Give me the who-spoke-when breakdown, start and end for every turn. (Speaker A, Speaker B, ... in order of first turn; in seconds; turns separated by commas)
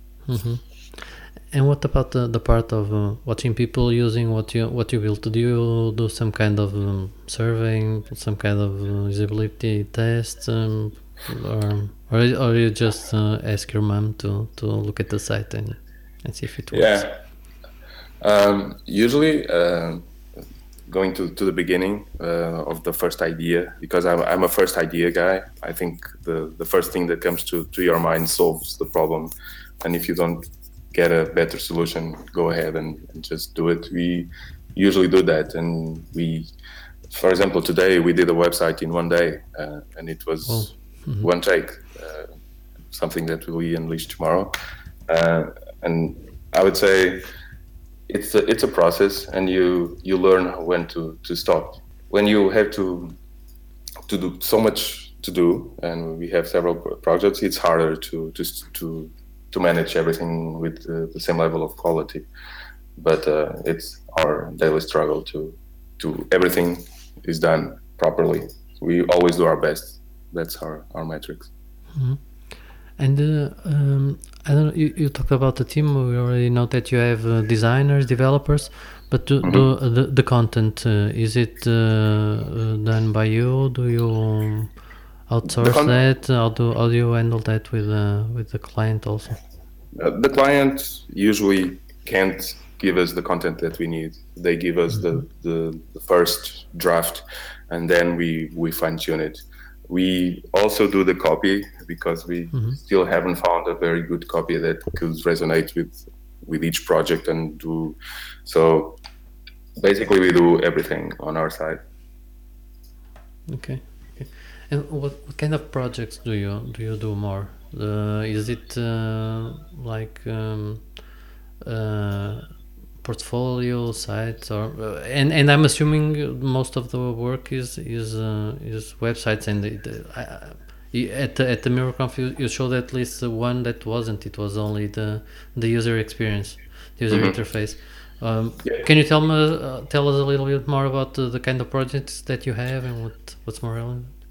Speaker A: 0.3-17.1, Speaker B: 16.7-17.1, Speaker B: 18.2-20.1, Speaker B: 20.9-36.5, Speaker B: 37.1-42.3, Speaker A: 40.5-41.3, Speaker B: 42.9-44.5, Speaker B: 45.1-47.3, Speaker B: 48.1-53.1, Speaker B: 54.1-62.2, Speaker B: 63.0-71.5, Speaker A: 71.9-89.4, Speaker B: 79.4-79.7, Speaker B: 85.5-86.0, Speaker B: 90.0-109.0, Speaker B: 109.8-111.8, Speaker A: 113.5-144.2, Speaker B: 137.1-137.4